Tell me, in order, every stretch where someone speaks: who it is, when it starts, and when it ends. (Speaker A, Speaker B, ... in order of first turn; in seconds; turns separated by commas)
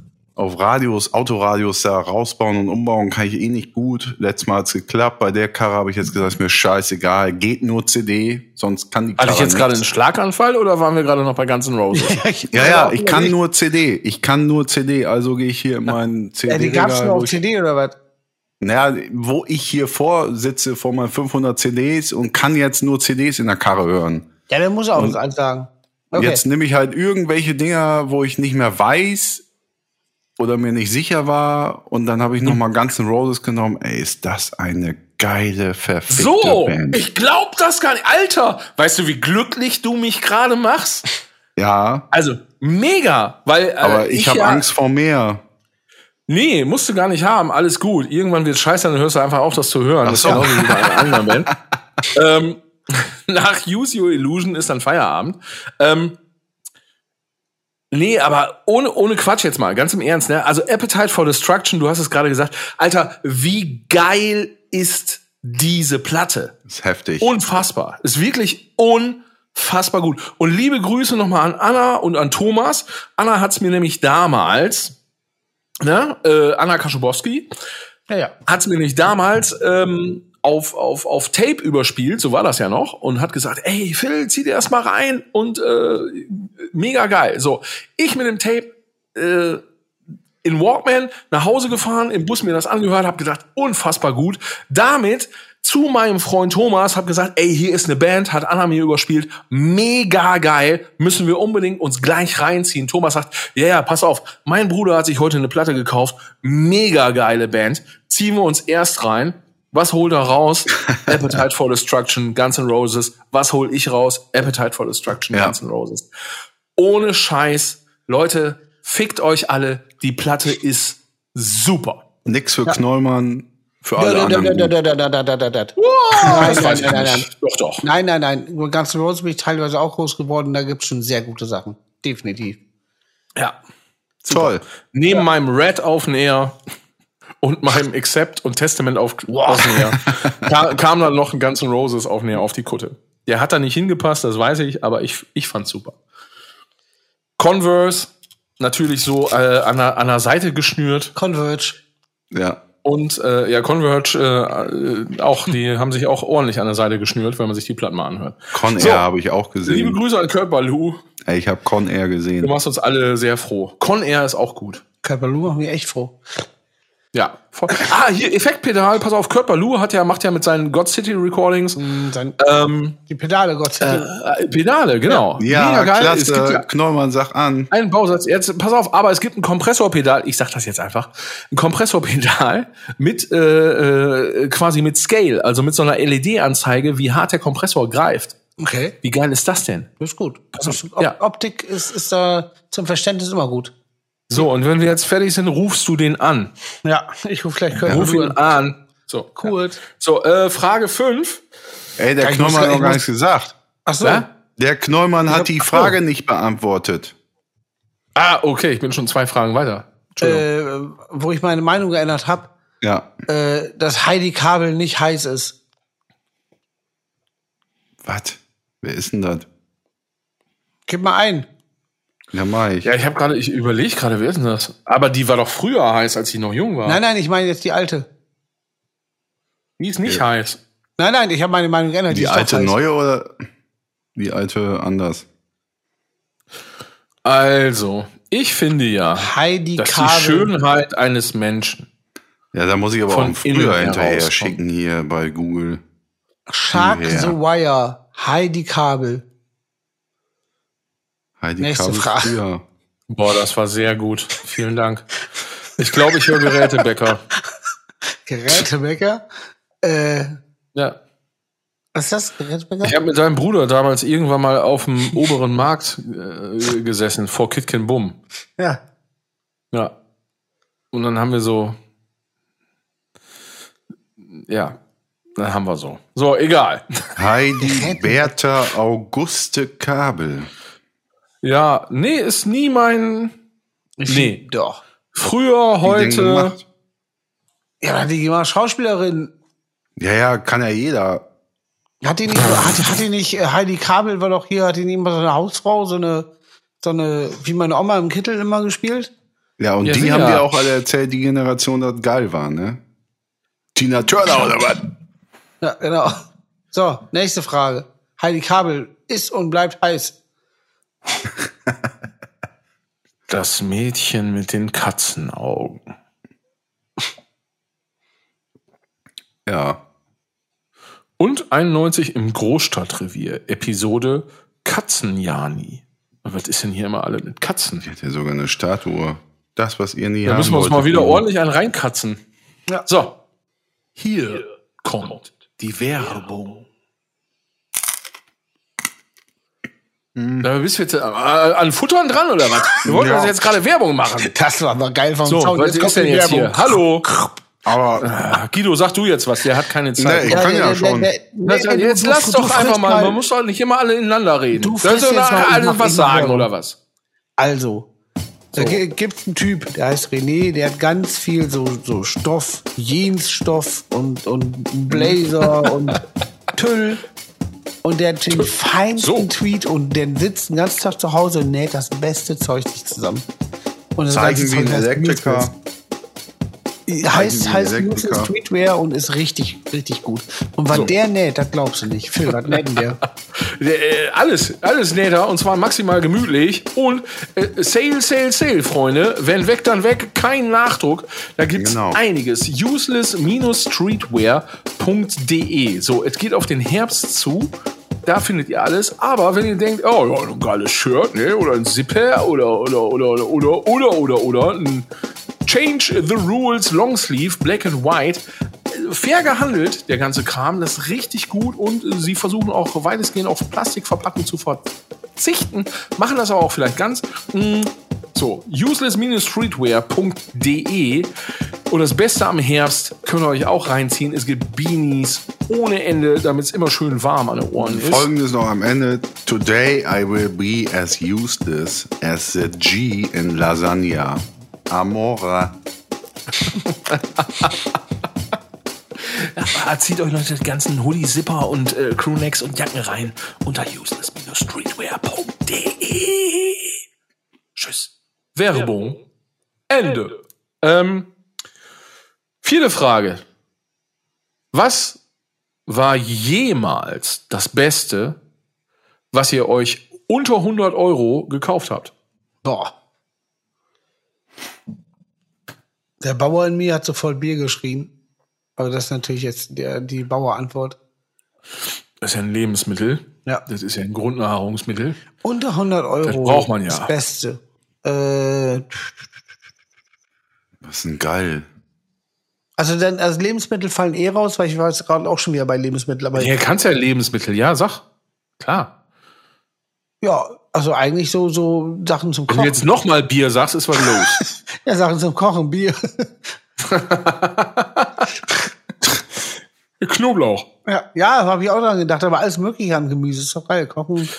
Speaker A: 0.4-9.8, Speaker B: 9.2-12.2, Speaker C: 11.9-13.3, Speaker A: 12.5-17.4, Speaker C: 16.5-17.9, Speaker A: 18.6-24.3, Speaker C: 24.5-26.4, Speaker A: 26.1-29.4, Speaker A: 30.4-37.0, Speaker B: 36.1-41.0, Speaker A: 41.6-42.0, Speaker B: 42.1-44.6, Speaker A: 43.8-45.4, Speaker B: 46.3-51.5, Speaker A: 50.0-51.3, Speaker B: 52.1-56.2, Speaker B: 57.9-66.5, Speaker A: 66.7-67.4, Speaker B: 67.2-75.0, Speaker B: 75.8-77.5, Speaker B: 78.5-89.6, Speaker B: 90.4-116.0, Speaker B: 116.8-122.0, Speaker A: 122.3-124.7, Speaker C: 124.0-127.3, Speaker B: 125.8-127.8, Speaker A: 126.3-126.7, Speaker C: 127.8-132.6, Speaker B: 134.2-136.6, Speaker A: 134.3-134.6, Speaker B: 137.4-146.0, Speaker C: 139.3-139.9, Speaker B: 147.4-151.1, Speaker C: 151.2-151.8, Speaker A: 152.3-152.6, Speaker B: 152.8-159.1, Speaker A: 158.5-160.0, Speaker B: 159.7-161.0, Speaker A: 161.2-162.6, Speaker B: 162.4-164.8, Speaker C: 165.0-166.2, Speaker B: 167.1-171.8, Speaker C: 171.8-172.4, Speaker B: 172.4-173.0, Speaker C: 173.0-174.1, Speaker B: 173.8-176.7, Speaker A: 175.4-177.7, Speaker B: 177.7-188.3, Speaker C: 188.6-188.9, Speaker B: 189.0-189.9, Speaker C: 190.0-193.7, Speaker B: 190.6-191.2, Speaker B: 194.3-196.5, Speaker C: 196.8-198.4, Speaker B: 197.9-201.4, Speaker C: 199.4-199.8, Speaker A: 202.0-203.5, Speaker C: 202.2-203.0, Speaker C: 203.9-204.3, Speaker A: 204.6-207.1, Speaker C: 205.3-206.0, Speaker B: 208.2-210.4, Speaker C: 210.2-212.5, Speaker A: 212.8-213.1, Speaker C: 213.3-215.6, Speaker A: 218.0-219.5, Speaker C: 220.9-221.5, Speaker A: 222.3-222.9, Speaker B: 222.8-227.0, Speaker C: 226.9-228.1, Speaker B: 229.8-230.6, Speaker C: 231.0-232.8, Speaker A: 232.1-233.3, Speaker A: 234.2-235.3, Speaker B: 237.2-241.9, Speaker C: 239.2-240.5, Speaker A: 242.5-245.8, Speaker B: 243.1-244.6, Speaker C: 246.5-249.2, Speaker A: 246.7-247.4, Speaker A: 251.4-252.6, Speaker C: 251.6-252.4, Speaker B: 253.1-255.1, Speaker B: 255.8-257.2, Speaker C: 258.3-259.2, Speaker C: 259.8-260.4, Speaker C: 261.9-263.0, Speaker B: 262.8-268.2, Speaker B: 270.9-271.8, Speaker B: 274.3-274.8, Speaker B: 275.4-277.1, Speaker A: 277.2-280.5, Speaker C: 277.6-278.3, Speaker B: 281.4-283.3, Speaker C: 284.0-284.8, Speaker B: 284.1-284.4, Speaker B: 285.1-286.6, Speaker A: 285.8-286.6, Speaker C: 287.8-289.3, Speaker A: 290.0-291.2, Speaker C: 292.0-296.3, Speaker C: 296.8-299.1, Speaker A: 299.6-302.8, Speaker B: 299.8-300.5, Speaker A: 303.8-304.8, Speaker C: 305.6-306.2, Speaker C: 306.7-310.1, Speaker B: 313.3-315.9, Speaker A: 319.5-319.8, Speaker B: 321.2-327.9, Speaker A: 327.8-331.2, Speaker B: 330.2-332.2, Speaker B: 332.9-333.2, Speaker B: 334.0-336.7, Speaker A: 340.2-340.5, Speaker B: 340.4-344.3, Speaker A: 342.9-343.4, Speaker C: 344.2-347.3, Speaker B: 345.2-347.1, Speaker A: 347.6-348.1, Speaker B: 348.0-350.4, Speaker A: 350.0-351.1, Speaker C: 350.3-353.2, Speaker B: 351.4-356.8, Speaker C: 354.5-356.5, Speaker C: 357.4-357.9, Speaker B: 358.5-358.8, Speaker C: 358.5-366.0, Speaker C: 366.6-367.0, Speaker C: 367.8-373.2, Speaker B: 368.4-369.3, Speaker C: 374.0-375.5, Speaker A: 374.1-375.5, Speaker C: 376.9-383.0, Speaker A: 377.1-378.3, Speaker B: 383.4-397.5, Speaker A: 391.6-392.0, Speaker B: 398.1-404.9, Speaker B: 405.4-421.1, Speaker B: 421.7-428.1, Speaker A: 427.6-435.6, Speaker B: 436.5-437.6, Speaker B: 439.0-446.8, Speaker B: 447.6-449.0, Speaker B: 449.7-451.1, Speaker B: 452.4-453.2, Speaker B: 454.5-455.0, Speaker B: 455.7-458.2, Speaker B: 459.1-461.9, Speaker C: 462.4-462.7, Speaker C: 466.0-467.9, Speaker C: 468.6-470.8, Speaker B: 472.0-475.0, Speaker C: 475.2-478.9, Speaker B: 476.1-476.9, Speaker A: 480.6-481.5, Speaker C: 482.6-486.3, Speaker B: 486.1-487.8, Speaker B: 488.4-488.7, Speaker C: 490.0-492.7, Speaker B: 492.3-494.2, Speaker C: 493.9-496.1, Speaker B: 496.6-498.1, Speaker B: 499.8-500.5, Speaker C: 500.7-504.1